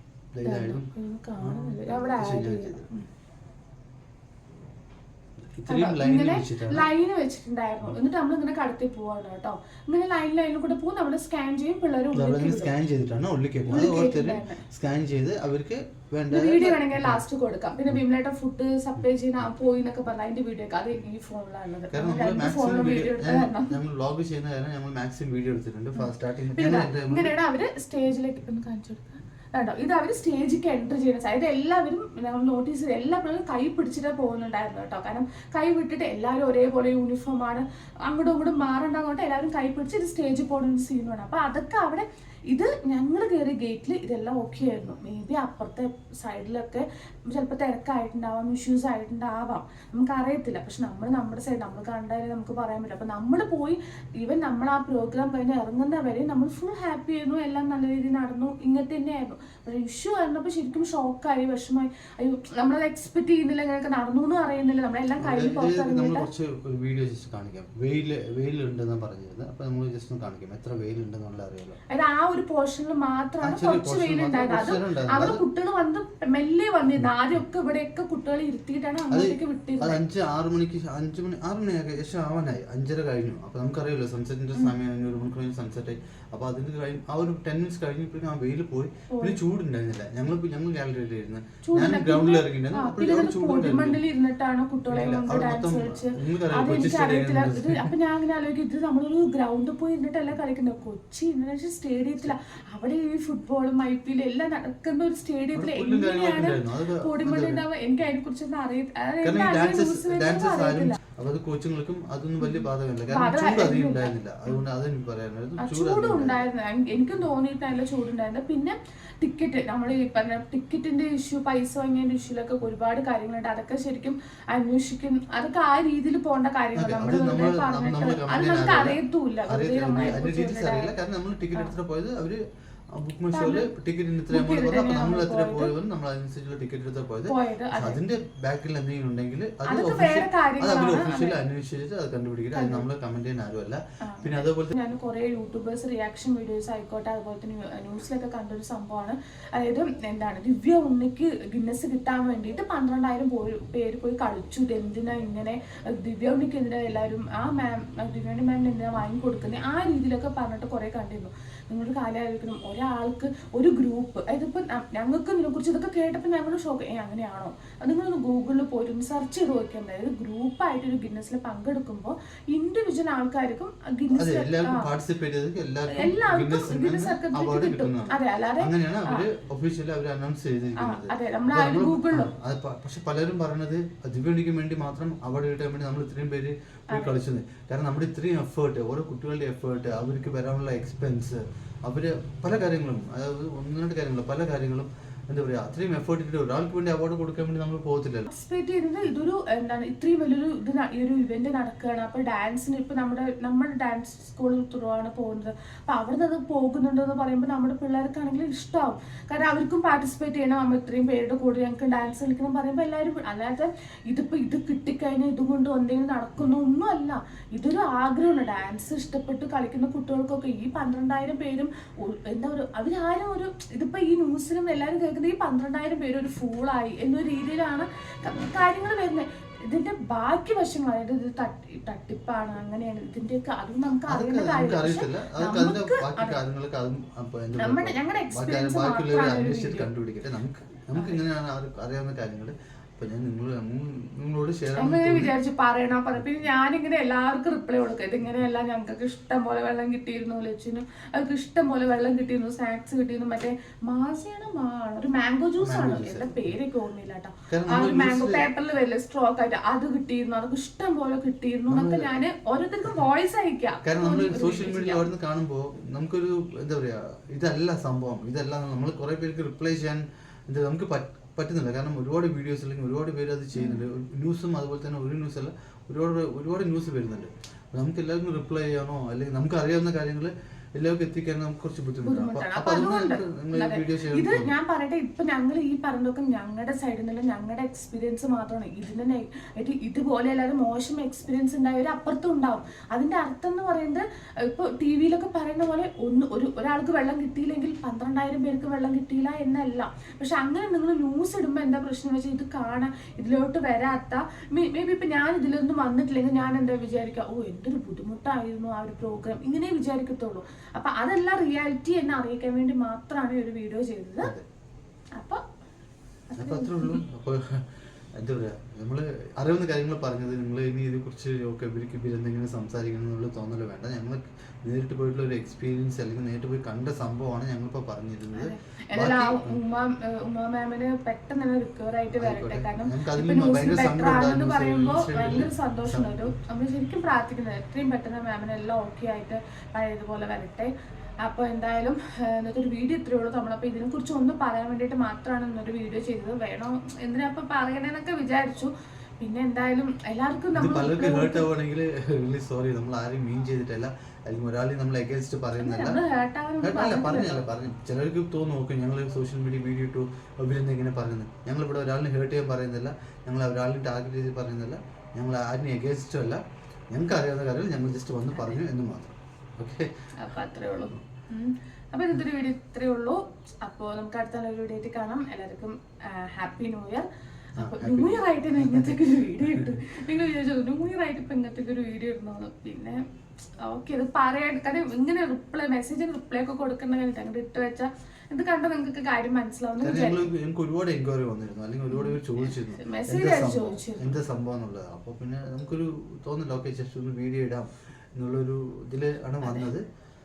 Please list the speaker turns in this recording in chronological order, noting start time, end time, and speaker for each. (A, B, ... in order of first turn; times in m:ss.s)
0:00.3-0:02.9 A
0:00.4-0:03.1 B
0:05.5-0:06.9 A
0:05.7-0:12.7 B
0:12.1-0:17.2 A
0:13.7-0:14.6 B
0:16.3-0:23.8 B
0:21.9-0:27.3 A
0:26.0-1:06.3 B
1:05.2-1:11.8 A
1:11.9-1:20.0 B
1:13.4-1:15.4 A
1:19.1-1:34.0 A
1:29.1-1:29.4 B
1:31.6-1:51.0 B
1:34.9-1:37.9 A
1:45.5-1:47.6 A
1:49.2-1:56.5 A
1:52.4-1:54.6 B
1:55.6-2:10.9 B
2:06.8-2:12.4 A
2:12.9-2:24.7 A
2:13.3-2:13.7 B
2:14.3-2:15.7 B
2:17.3-2:18.0 B
2:19.6-2:21.4 B
2:22.6-2:22.9 B
2:24.0-2:54.9 B
2:54.2-3:18.2 A
2:55.9-2:59.3 B
3:00.8-3:02.3 B
3:18.3-3:56.4 B
3:54.1-4:05.3 A
3:57.6-3:59.9 B
4:01.0-4:01.2 B
4:04.8-4:25.1 B
4:15.6-4:16.6 A
4:17.5-4:18.5 A
4:21.7-4:22.1 A
4:23.8-4:44.5 A
4:33.6-4:33.8 B
4:42.0-5:14.3 B
5:15.2-5:15.4 B
5:16.3-5:17.0 B
5:16.4-5:29.6 A
5:28.4-5:40.7 B
5:32.1-5:36.2 A
5:41.2-5:51.5 B
5:50.5-5:56.0 A
5:55.6-5:57.4 B
5:56.6-6:10.3 A
6:08.3-6:08.6 B
6:10.2-6:23.0 B
6:17.6-6:19.8 A
6:23.6-6:30.3 B
6:29.8-6:39.8 A
6:31.9-6:34.2 B
6:39.4-6:39.7 B